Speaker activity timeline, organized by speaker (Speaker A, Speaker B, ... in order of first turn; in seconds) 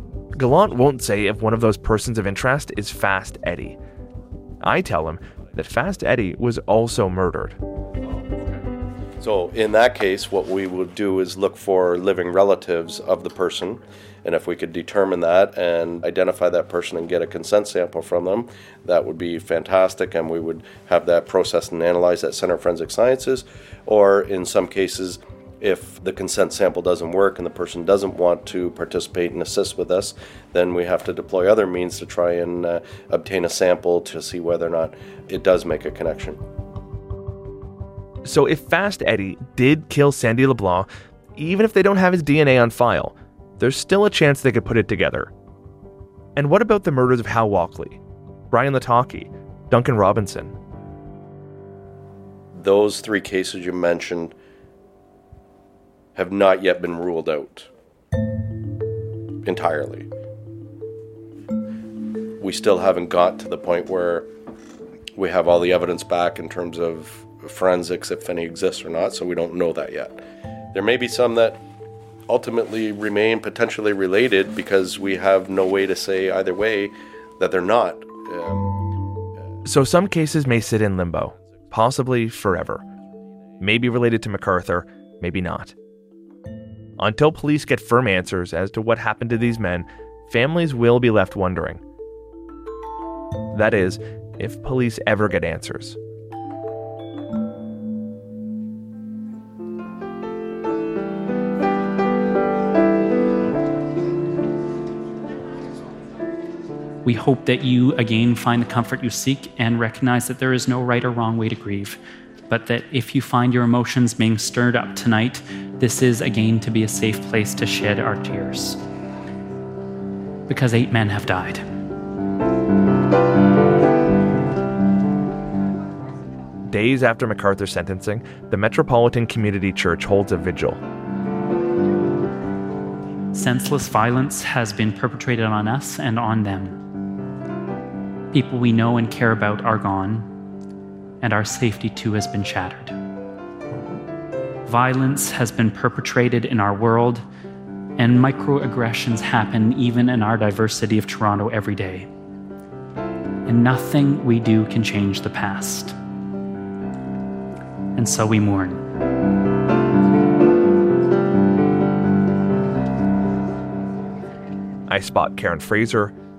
Speaker A: 0.3-3.8, 4.6-7.6, 38.2-45.3, 46.4-48.0, 48.5-50.5, 79.7-82.8, 83.6-85.7, 87.0-91.8, 93.5-96.0, 126.7-130.8, 164.9-166.1
Speaker B: 9.2-36.4, 52.5-54.3, 56.2-57.7, 59.5-60.1, 62.4-64.3, 65.2-70.2, 70.7-71.6, 72.3-78.7
Speaker C: 107.0-118.8, 120.5-121.7, 133.3-136.8, 138.3-140.3, 141.2-143.0, 144.7-147.2, 148.0-152.1, 153.5-156.0, 157.9-158.8